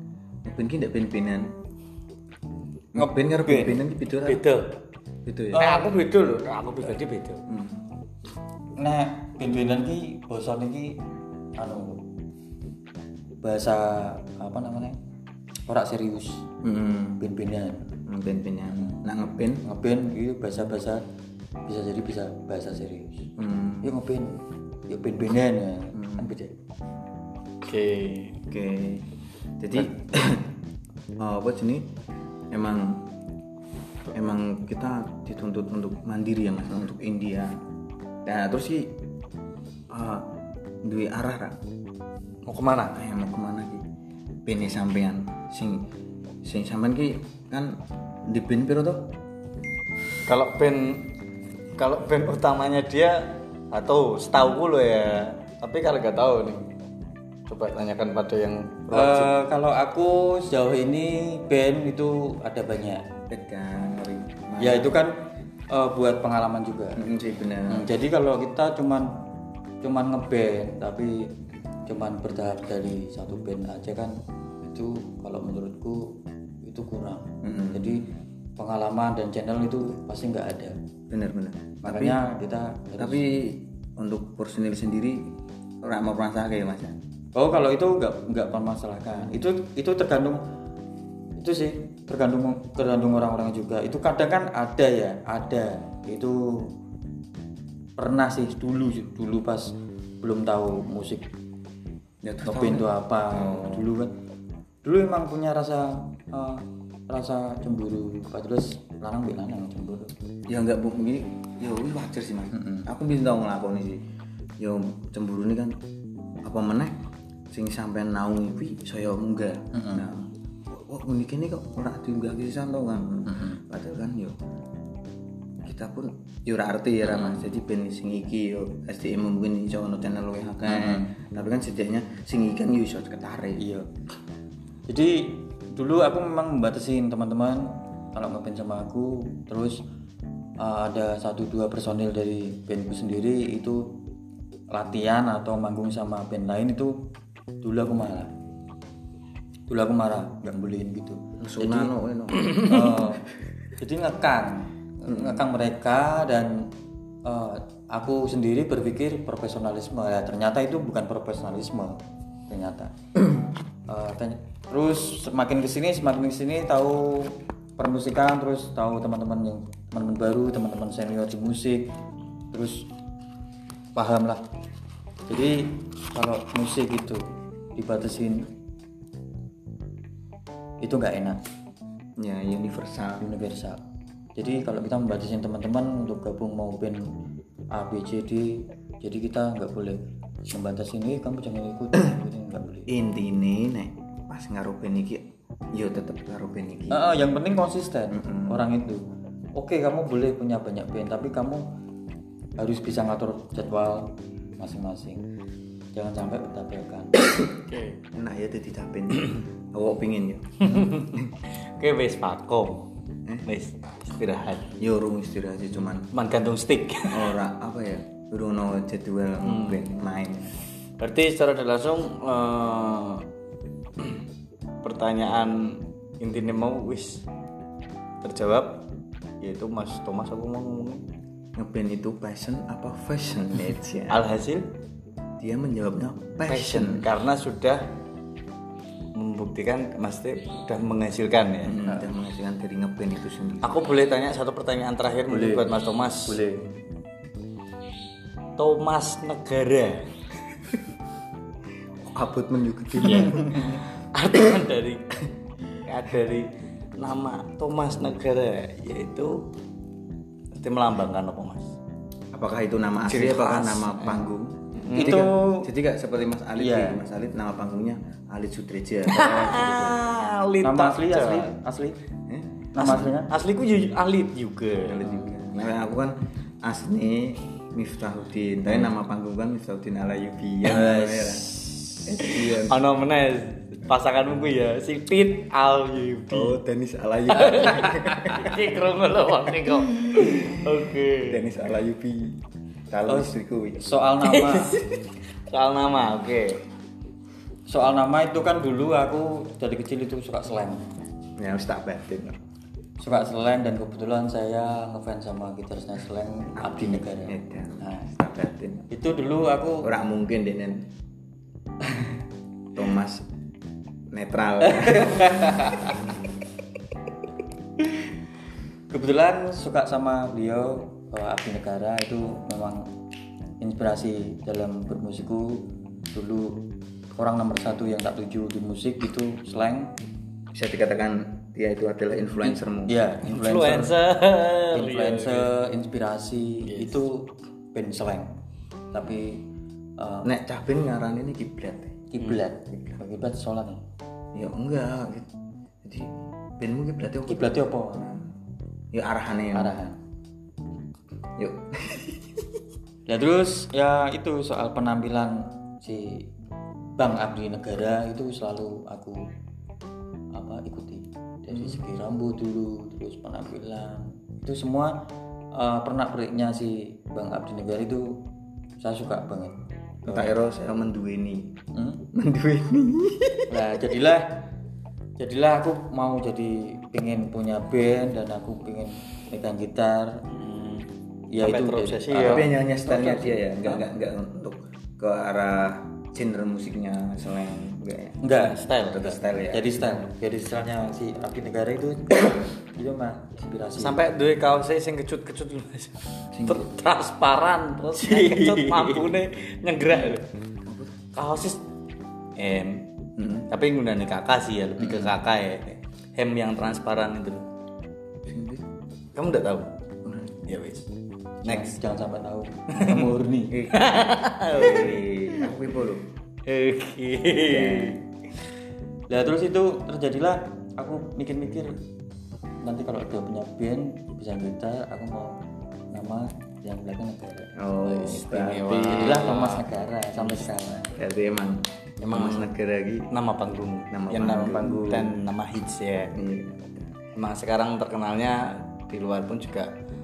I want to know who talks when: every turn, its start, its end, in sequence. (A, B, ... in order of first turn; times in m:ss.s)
0:00.4-0:01.5 A
0:02.9-0:04.4 A
0:03.0-0:03.8 B
0:04.2-0:04.8 C
0:05.3-0:05.7 A
0:05.5-0:06.0 B
0:05.6-0:07.4 C
0:07.5-0:07.8 A
0:08.8-0:11.0 B
0:11.6-0:12.0 B
0:13.4-0:15.0 B
0:15.7-0:16.5 B
0:16.6-0:17.2 A
0:17.2-0:17.9 B
0:18.1-0:19.6 A
0:18.7-0:19.0 B
0:19.6-0:21.0 B
0:21.7-0:23.3 B
0:23.4-0:23.9 A
0:23.8-0:26.6 B
0:25.9-0:26.3 A
0:27.6-0:28.4 C
0:28.5-0:29.1 A
0:29.6-0:30.5 A
0:31.2-0:31.9 A
0:32.5-0:33.1 A
0:34.1-0:37.6 A
0:38.2-0:39.0 A
0:39.9-0:40.3 A
0:40.8-0:41.6 A
0:42.5-0:43.0 C
0:42.9-0:43.8 A
0:44.5-0:45.9 A
0:46.4-0:49.1 A
0:50.2-0:51.1 C
0:51.8-0:56.7 C
0:57.5-0:59.4 C
0:58.9-1:03.1 B
1:03.3-1:05.0 A
1:04.6-1:07.0 B
1:07.0-1:07.9 A
1:07.7-1:09.1 B
1:09.8-1:11.3 B
1:11.9-1:20.8 B
1:17.4-1:18.0 A
1:21.1-1:22.2 A
1:21.8-1:23.3 B
1:23.0-1:27.0 A
1:27.4-1:30.4 B
1:31.4-1:36.7 B
1:38.0-1:41.3 B
1:42.2-1:43.9 A
1:42.4-1:44.1 B
1:44.8-1:50.1 B
1:50.5-1:54.0 A
1:52.5-1:52.9 B
1:54.6-1:55.8 A
1:56.4-1:57.0 A
1:57.5-2:04.4 A
1:59.7-2:00.1 B
2:03.3-2:03.6 B
2:05.6-2:13.6 A
2:10.7-2:11.1 B
2:13.6-2:13.9 B
2:14.9-2:19.8 B
2:20.6-2:23.9 B
2:24.7-2:27.0 B
2:27.6-2:28.3 B
2:29.7-2:33.3 B
2:31.4-2:32.9 A
2:33.8-2:36.7 B
2:35.1-2:35.5 A
2:37.2-2:43.0 B
2:43.9-2:51.9 B
2:52.5-2:52.9 B
2:54.0-2:54.4 B
2:55.3-2:57.2 B
2:57.8-2:58.5 B
3:00.8-3:01.4 B
3:02.2-3:03.3 A
3:03.2-3:03.8 B
3:04.4-3:07.1 B
3:07.7-3:12.9 B
3:12.9-3:17.0 A
3:16.9-3:21.7 B
3:18.1-3:18.6 A
3:22.6-3:25.2 B
3:25.9-3:27.3 B
3:27.7-3:28.0 C
3:28.1-3:31.2 A
3:30.6-3:32.9 C
3:33.4-3:34.7 C
3:34.8-3:36.1 A
3:36.1-3:37.4 C
3:37.1-3:40.6 A
3:39.4-3:39.8 C
3:41.0-3:43.3 C
3:44.8-3:47.2 C
3:48.2-3:48.9 C
3:49.4-3:51.0 C
3:51.6-3:54.3 A
3:54.1-3:54.7 C
3:55.4-3:57.1 A
3:56.5-3:57.9 C
3:59.2-4:01.8 C
4:01.6-4:03.8 A
4:03.6-4:06.4 C
4:05.3-4:06.7 B
4:08.6-4:10.1 C
4:12.0-4:13.8 A
4:13.0-4:15.2 C
4:15.8-4:19.5 C
4:20.6-4:21.7 C
4:22.3-4:30.0 A
4:23.1-4:25.3 C
4:24.9-4:25.7 B
4:26.6-4:27.0 B
4:29.1-4:31.5 C
4:30.6-4:32.0 B
4:32.3-4:33.1 A
4:32.7-4:33.3 B
4:32.8-4:35.0 C
4:34.8-4:42.8 A
4:40.6-4:41.8 B
4:42.2-4:46.6 C
4:46.3-4:48.7 A
4:47.3-4:51.5 C
4:50.2-4:50.6 A
4:51.2-4:53.8 A
4:53.1-4:54.8 B
4:54.2-4:56.6 C
4:57.7-5:00.9 B
5:01.4-5:02.4 A
5:03.0-5:08.1 B
5:06.6-5:08.9 A
5:08.9-5:09.9 B
5:09.8-5:10.9 A
5:12.7-5:13.3 A
5:14.1-5:16.0 A
5:15.1-5:15.9 B
5:18.9-5:22.9 B
5:23.6-5:29.9 B
5:30.5-5:33.0 A
5:32.4-5:34.0 B
5:33.2-5:35.5 C
5:34.7-5:38.3 B
5:36.6-5:37.0 C
5:38.9-5:39.5 B
5:40.0-5:40.3 B
5:40.2-5:42.0 A
5:42.1-5:43.8 B
5:44.3-5:45.3 A
5:45.8-5:48.3 A
5:47.3-5:48.1 B
5:48.9-5:49.8 A
5:49.6-5:50.0 B
5:51.4-5:52.4 A
5:53.1-5:56.3 B
5:57.0-5:59.3 B
6:00.3-6:05.0 B
6:01.5-6:01.8 A
6:05.5-6:08.2 B
6:08.8-6:10.3 B
6:10.0-6:11.6 A
6:11.7-6:12.1 B
6:12.1-6:13.6 A
6:13.5-6:14.4 B
6:15.2-6:20.2 B
6:20.3-6:20.9 C
6:21.3-6:23.8 B
6:21.4-6:22.5 C
6:22.1-6:28.2 A
6:28.2-6:28.6 B
6:28.4-6:29.2 C
6:28.8-6:29.7 A
6:29.5-6:34.0 B
6:33.8-6:40.3 C
6:36.3-6:36.7 A
6:38.0-6:39.0 B
6:40.7-6:41.0 A
6:41.1-6:41.6 C
6:42.4-6:42.9 C
6:43.2-6:43.5 A
6:43.5-6:47.5 C
6:48.3-6:48.6 A
6:49.2-6:49.7 C
6:50.0-6:50.4 A
6:50.5-6:50.9 C
6:51.4-6:53.7 B
6:51.4-6:51.8 C
6:52.8-6:53.1 C
6:53.5-6:53.9 A
6:53.7-6:55.5 C
6:54.5-6:56.1 A
6:56.5-6:58.0 C
6:57.4-6:58.0 A
6:59.1-7:01.8 B
7:02.6-7:05.4 B
7:05.9-7:07.5 B
7:07.6-7:09.3 A
7:07.8-7:09.7 C
7:08.9-7:10.9 B
7:10.9-7:13.1 A
7:12.1-7:12.5 C
7:13.1-7:16.2 C
7:13.9-7:15.1 A
7:16.1-7:16.9 A
7:17.2-7:19.7 C